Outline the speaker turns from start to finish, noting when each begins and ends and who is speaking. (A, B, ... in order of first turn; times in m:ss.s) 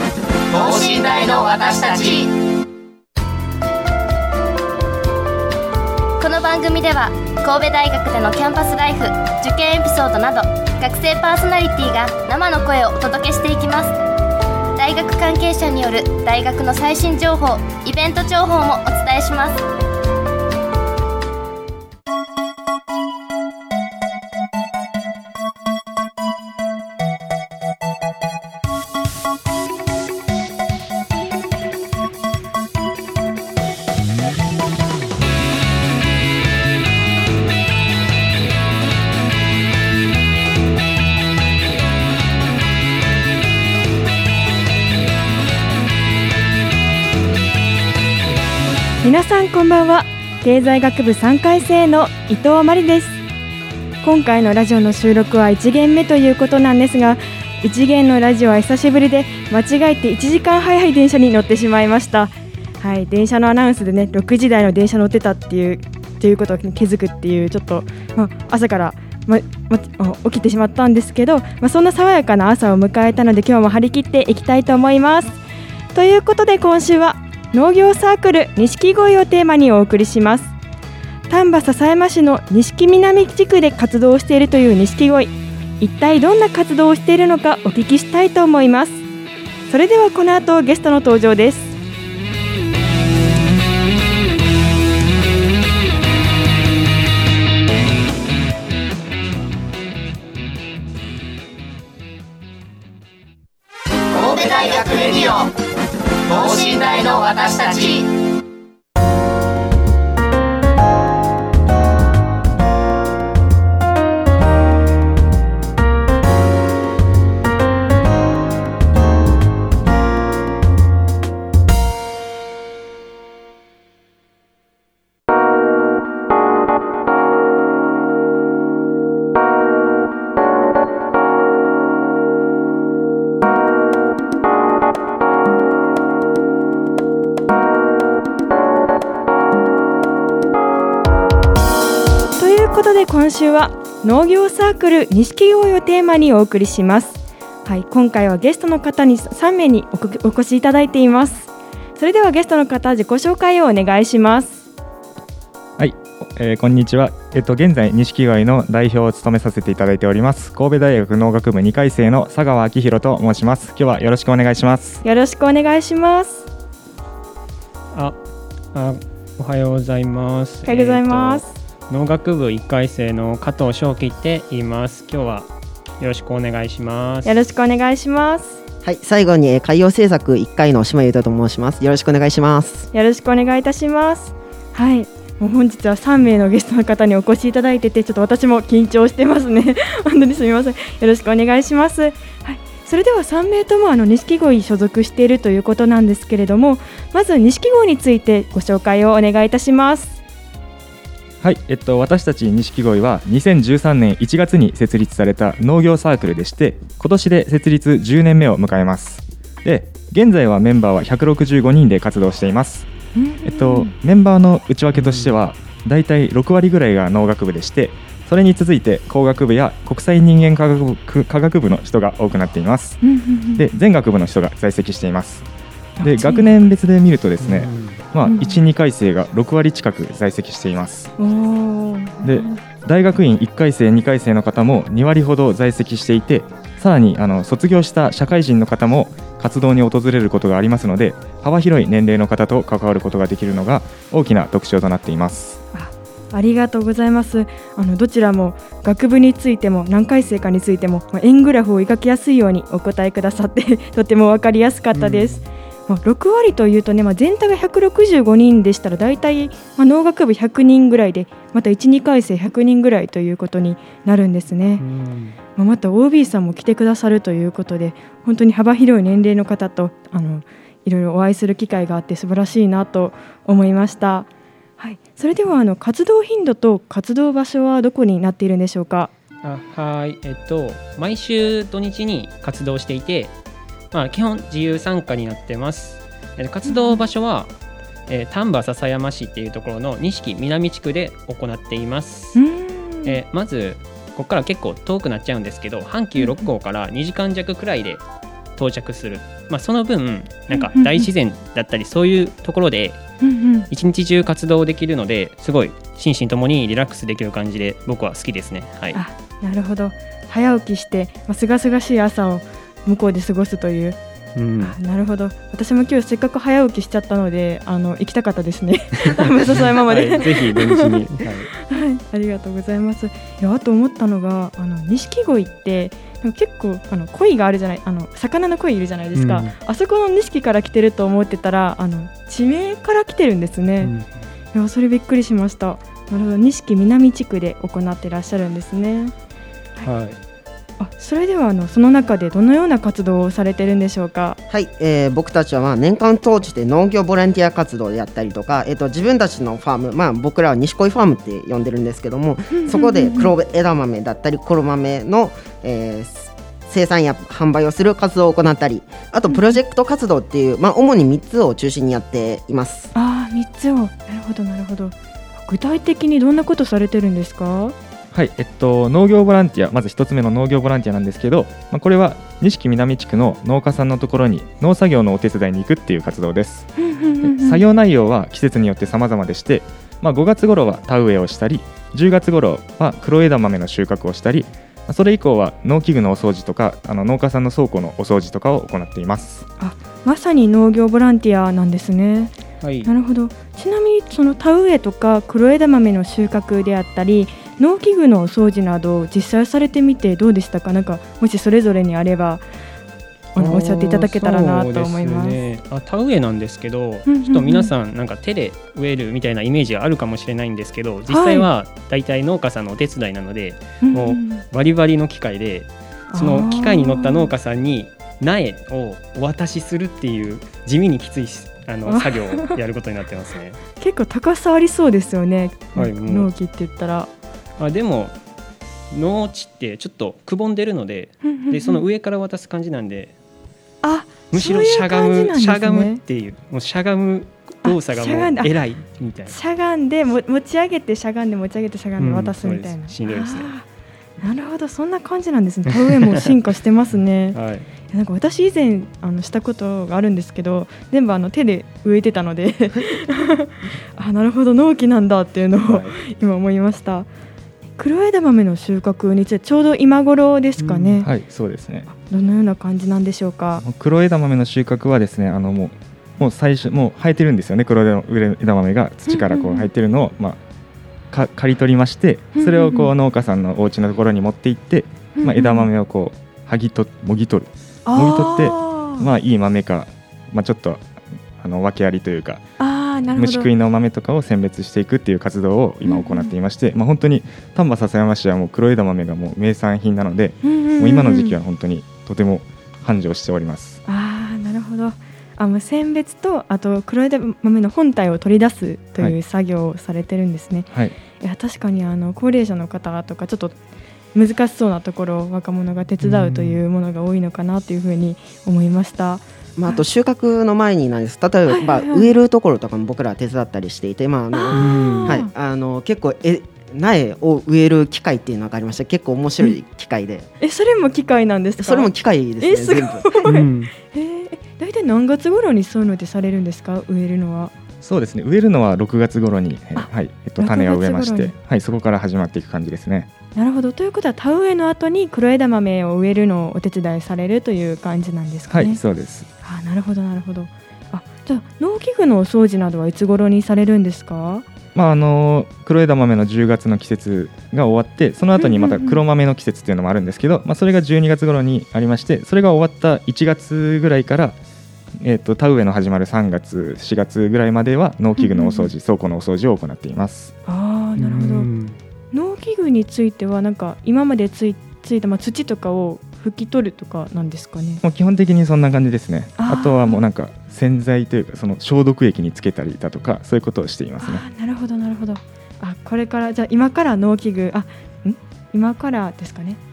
0:00.5-0:02.3 A
0:06.2-0:13.9 B
0:14.8-0:19.6 B
0:49.0-0:53.2 C
0:54.0-1:15.4 C
1:15.9-1:20.5 C
1:21.3-1:29.0 C
1:29.7-1:31.7 C
1:44.1-1:45.5 A
1:46.3-1:48.1 A
2:22.4-2:34.7 C
2:35.8-2:45.0 D
2:45.0-2:46.5 C
2:48.7-2:55.5 E
2:50.6-2:51.6 C
2:56.0-2:57.3 E
2:57.2-2:58.6 C
2:58.8-3:02.9 F
3:02.9-3:20.2 C
3:21.4-3:32.9 D
3:33.1-3:33.9 C
3:33.4-3:43.0 D
3:34.9-3:35.3 E
3:43.0-3:43.6 C
3:43.5-3:45.4 D
3:46.0-3:46.5 C
3:46.0-3:51.1 D
3:47.4-3:48.0 E
3:48.2-3:48.6 C
3:51.2-3:52.6 C
3:52.2-4:05.6 D
4:05.7-4:24.8 C
4:14.9-4:15.4 E
4:24.8-4:25.4 E
4:25.6-4:39.1 C
4:39.4-4:43.3 E
4:43.9-4:47.5 E
4:46.6-4:47.0 C
4:48.1-4:52.4 E
4:52.3-4:53.2 C
4:53.0-4:58.0 E
4:56.2-4:56.4 C
4:58.6-5:03.0 E
5:00.5-5:01.1 C
5:03.2-5:03.7 C
5:03.7-5:09.0 E
5:08.9-5:14.0 C
5:14.3-5:14.8 E
5:14.6-5:21.0 C
5:19.5-5:21.5 E
5:21.5-5:33.9 C
5:29.1-5:29.5 E
5:33.8-5:34.1 E
5:34.5-5:39.1 C
5:39.8-5:40.2 E
5:40.8-5:44.4 C
5:44.5-6:02.9 F
5:52.5-5:53.3 C
6:02.9-6:07.7 C
6:08.1-6:16.7 D
6:16.8-6:17.6 C
6:17.2-6:29.4 D
6:29.6-6:32.3 C
6:32.6-6:32.9 E
6:32.8-6:42.4 C
6:43.3-6:45.4 C
6:43.4-7:03.6 E
6:47.1-6:47.7 C
6:51.1-6:51.5 C
6:53.8-6:54.4 C
6:56.1-6:57.3 C
7:01.9-7:02.5 C
7:03.8-7:07.1 C
7:05.7-7:06.3 E
7:07.6-7:08.1 E
7:08.9-7:13.1 E
7:11.2-7:11.8 C
7:13.8-7:16.0 C
7:14.3-7:19.4 E
7:17.6-7:18.5 C
7:19.3-7:23.6 C
7:22.0-7:23.5 E
7:24.2-7:27.4 C
7:27.3-7:27.7 E
7:27.9-7:37.1 C
7:35.6-7:35.9 E
7:37.8-7:41.1 C
7:40.6-7:41.0 E
7:41.0-7:41.9 D
7:41.9-7:43.6 C
7:43.6-7:50.4 D
7:49.1-7:49.7 C
7:51.1-8:02.4 D
7:52.3-7:52.9 C
7:55.2-7:55.7 C
7:57.8-7:59.1 C
8:02.6-8:03.5 C
8:03.2-8:13.8 D
8:05.8-8:06.3 C
8:10.4-8:11.4 C
8:13.8-8:23.6 C
8:20.7-8:21.0 D
8:24.1-8:29.8 C
8:26.0-8:26.6 E
8:29.6-8:40.3 F
8:31.5-8:32.1 C
8:34.3-8:35.3 C
8:34.5-8:35.1 E
8:40.4-8:47.5 C
8:41.6-8:43.1 F
8:43.2-8:43.7 E
8:47.8-8:53.1 D
8:49.7-8:51.3 C
8:53.3-8:58.8 C
8:58.5-8:59.3 D
8:59.4-9:04.4 C
9:04.7-9:14.4 D
9:08.4-9:09.0 C
9:15.0-9:20.3 D
9:18.2-9:18.7 C
9:20.5-9:21.5 C
9:21.0-9:21.8 E
9:22.1-9:27.8 C
9:27.8-9:34.2 D
9:29.4-9:30.0 C
9:34.0-9:39.6 C